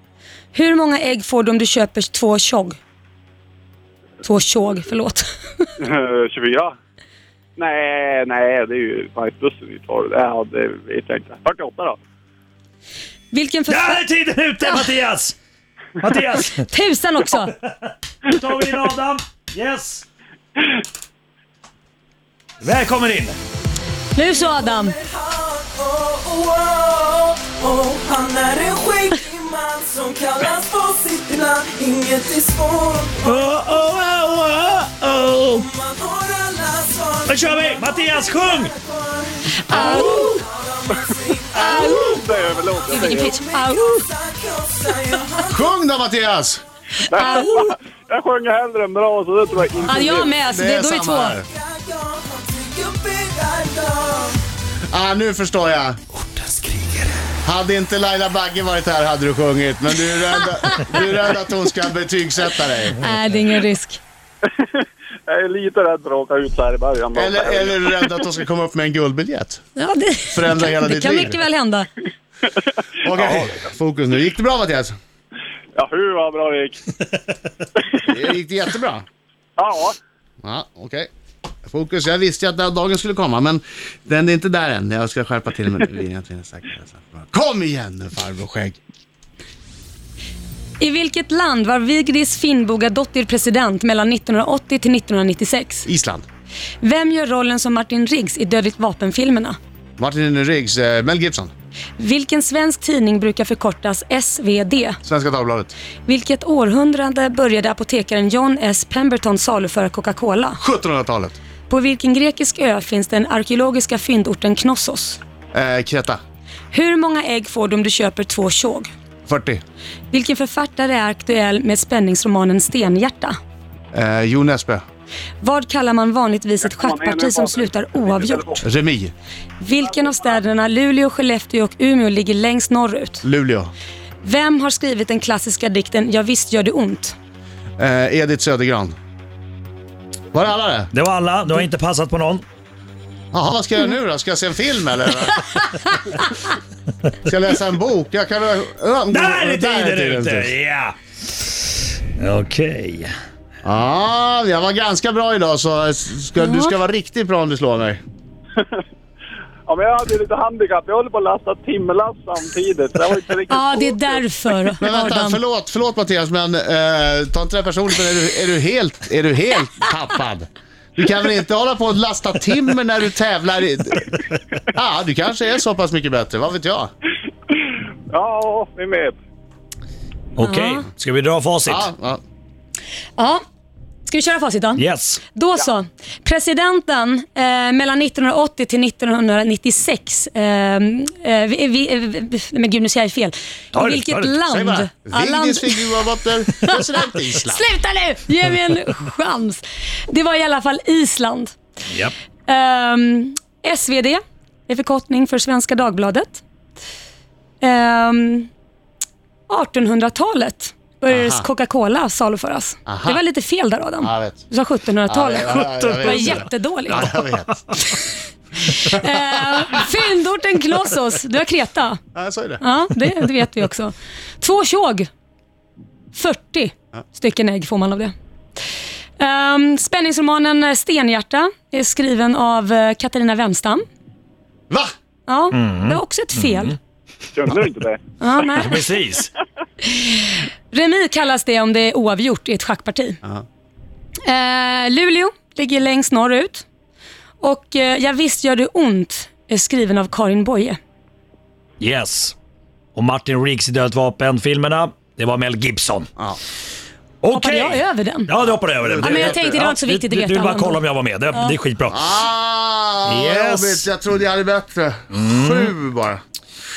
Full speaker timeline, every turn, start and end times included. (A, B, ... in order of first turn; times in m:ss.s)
0:00.5-0:02.8 A
0:04.2-0:05.7 A
0:05.8-0:06.7 B
0:07.6-0:12.0 B
0:13.3-0:14.0 A
0:13.7-0:15.3 C
0:16.0-0:16.7 C
0:16.7-0:17.5 A
0:17.2-0:20.0 C
0:22.6-0:23.4 C
0:24.1-0:25.0 A
0:24.9-0:33.2 D
0:33.2-0:35.7 C
0:35.7-0:41.6 D
0:37.2-0:38.7 C
0:39.6-0:40.4 A
0:39.7-0:40.0 B
0:41.5-0:43.4 B
0:41.5-0:42.2 A
0:42.9-0:45.6 D
0:42.9-0:44.1 A
0:45.5-0:46.6 E
0:47.1-0:50.4 B
0:47.1-0:47.8 A
0:49.8-0:51.4 A
0:50.5-0:51.5 E
0:51.6-0:54.4 D
0:54.9-0:56.0 E
0:56.4-0:57.0 C
0:57.4-1:03.0 E
1:00.3-1:01.0 A
1:03.0-1:04.0 A
1:04.4-1:07.9 B
1:07.1-1:09.6 E
1:09.8-1:11.9 A
1:10.3-1:11.4 E
1:12.5-1:13.6 B
1:13.0-1:14.9 E
1:15.7-1:16.9 B
1:18.0-1:19.0 E
1:19.6-1:20.0 B
1:20.4-1:21.1 E
1:21.6-1:28.8 E
1:30.8-1:35.8 A
1:35.8-1:36.2 E
1:36.8-1:39.6 A
1:40.0-1:41.5 E
1:42.0-1:45.0 A
1:45.0-1:45.7 E
1:46.0-1:50.6 A
1:50.6-1:51.4 E
1:51.7-1:55.2 A
1:55.5-1:56.2 E
1:56.7-1:58.9 A
1:59.2-1:59.6 E
2:00.1-2:03.4 A
2:03.9-2:04.8 E
2:05.4-2:08.6 A
2:06.6-2:08.6 B
2:08.6-2:09.1 E
2:09.6-2:13.2 A
2:13.2-2:13.7 E
2:14.2-2:17.1 A
2:17.8-2:18.9 E
2:20.3-2:20.9 E
2:20.9-2:22.4 C
2:23.3-2:25.5 E
2:27.2-2:30.5 E
2:29.1-2:33.1 C
2:33.6-2:38.0 E
2:36.4-2:36.7 A
2:38.6-2:38.8 B
2:39.7-2:44.2 B
2:43.5-2:45.4 A
2:44.8-2:54.2 E
2:54.7-2:56.9 E
2:57.5-2:59.2 B
3:00.4-3:01.9 C
3:00.4-3:00.8 A
3:01.6-3:02.2 E
3:03.2-3:03.4 A
3:04.0-3:16.0 A
3:04.8-3:05.2 C
3:13.7-3:14.4 C
3:14.5-3:17.6 E
3:17.4-3:21.5 A
3:22.5-3:26.4 A
3:27.6-3:28.5 A
3:29.5-3:37.1 A
3:31.1-3:31.4 E
3:32.9-3:33.2 E
3:34.0-3:34.4 E
3:35.1-3:37.6 E
3:35.4-3:37.6 C
3:38.7-3:42.0 A
3:42.1-3:42.6 E
3:42.6-3:45.1 A
3:46.1-3:48.1 A
3:49.2-3:53.8 A
3:55.3-3:56.8 A
3:55.5-3:56.7 C
3:57.3-3:58.0 B
3:58.2-3:58.8 A
3:58.6-3:59.3 C
3:59.9-4:03.2 A
4:04.3-4:06.6 A
4:07.4-4:10.8 A
4:11.8-4:12.3 C
4:12.9-4:16.1 C
4:17.2-4:22.0 C
4:17.3-4:18.3 A
4:18.7-4:19.6 E
4:19.0-4:20.8 A
4:21.9-4:26.2 E
4:23.0-4:23.9 C
4:25.1-4:25.7 C